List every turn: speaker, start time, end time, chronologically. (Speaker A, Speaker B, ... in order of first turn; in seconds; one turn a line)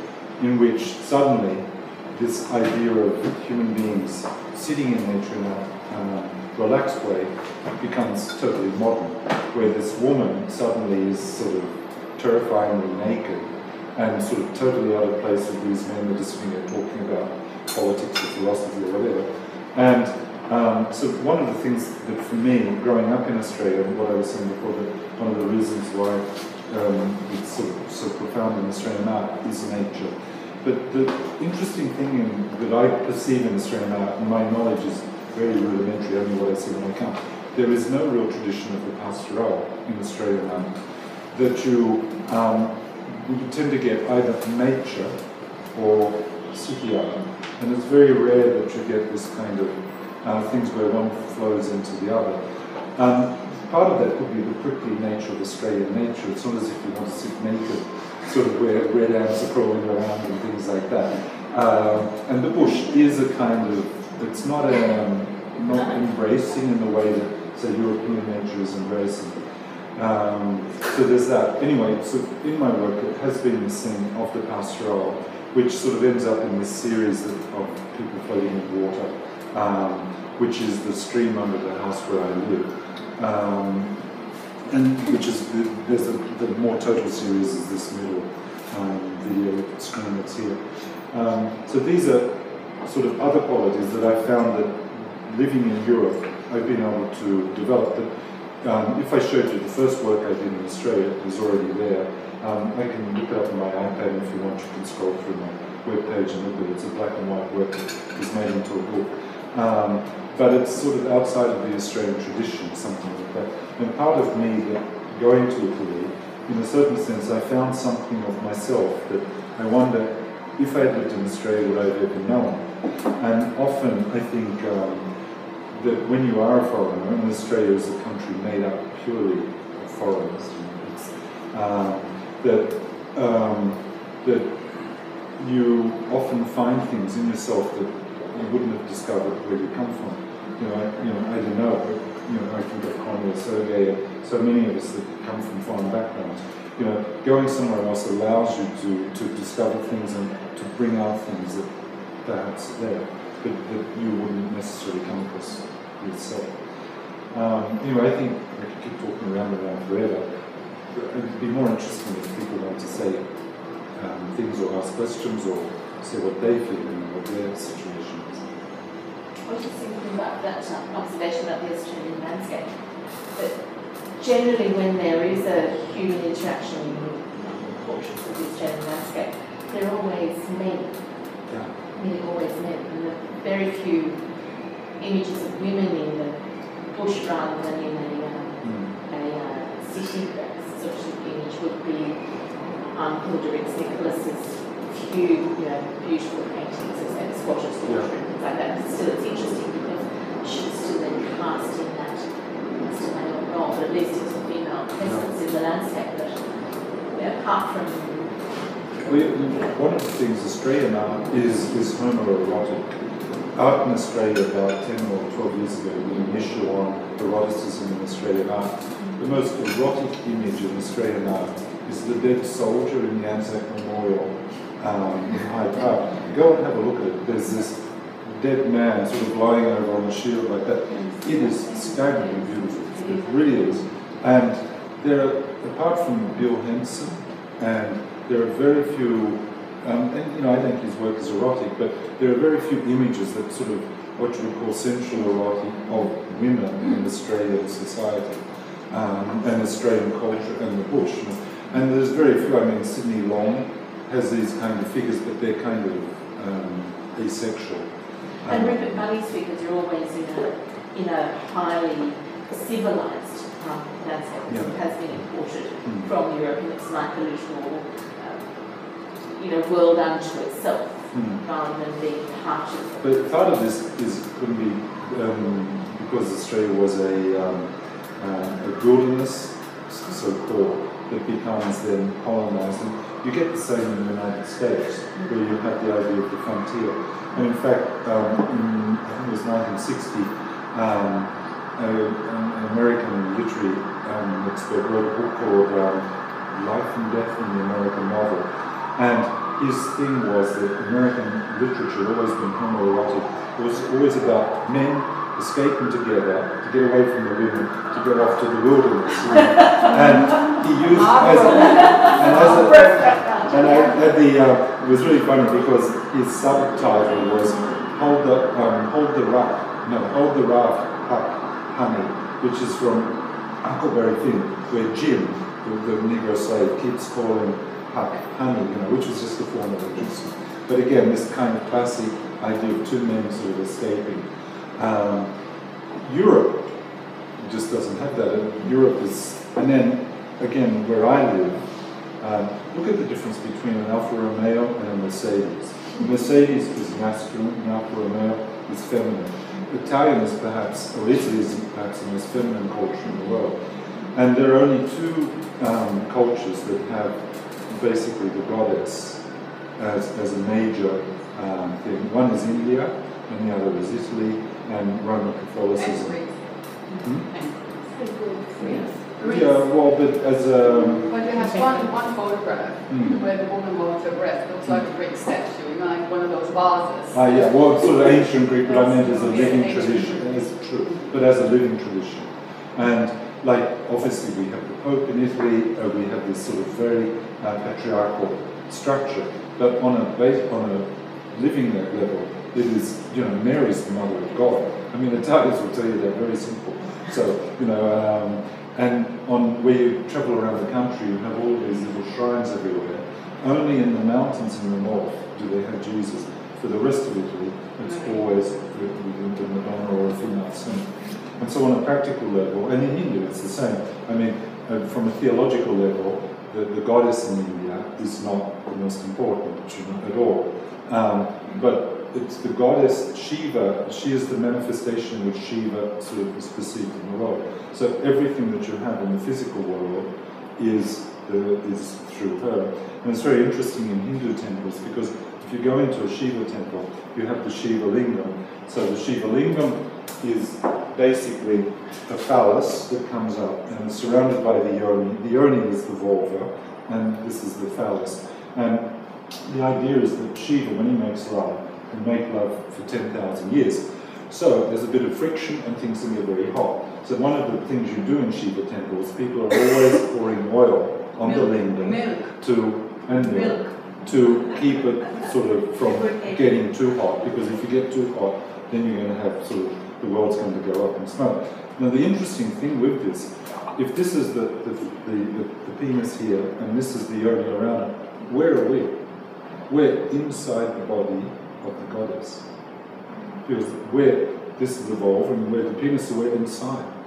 Speaker A: 0.4-40.8
Speaker A: 41.3-45.1
Speaker A: 45.7-52.4
Speaker A: 52.9-69.4
Speaker A: 69.9-84.0
Speaker A: 84.7-98.1
Speaker A: 98.6-125.1
Speaker A: 125.7-134.7
Speaker A: 135.4-151.7
Speaker A: 152.2-156.6
Speaker A: 157.3-160.3
Speaker A: 160.9-163.3
Speaker A: 163.9-168.4
Speaker B: 169.4-172.7
Speaker B: 174.2-181.0
Speaker A: 181.5-181.7
Speaker B: 181.9-184.2
Speaker B: 185.0-186.3
Speaker B: 186.9-192.2
Speaker A: 188.6-188.9
Speaker B: 192.9-202.3
Speaker B: 202.8-208.3
Speaker A: 205.0-205.3
Speaker A: 209.0-213.0
Speaker A: 213.5-257.9
Speaker A: 258.4-258.8
Speaker B: 258.4-268.5
Speaker A: 264.5-264.7
Speaker A: 265.8-266.1
Speaker B: 269.3-273.4
Speaker A: 271.1-271.4
Speaker A: 273.0-335.3
Speaker C: 311.0-312.8
Speaker B: 311.7-313.9
Speaker A: 335.9-336.7
Speaker A: 337.4-341.7
Speaker A: 342.2-353.6
Speaker A: 354.1-359.2
Speaker A: 359.8-366.1
Speaker C: 365.8-368.0
Speaker B: 367.9-368.9
Speaker C: 368.8-369.6
Speaker A: 369.2-371.4
Speaker C: 371.1-377.5
Speaker A: 372.9-373.2
Speaker A: 377.1-478.9
Speaker C: 378.6-381.0
Speaker C: 461.2-462.3
Speaker B: 463.3-463.7
Speaker A: 479.7-482.4
Speaker A: 483.4-486.9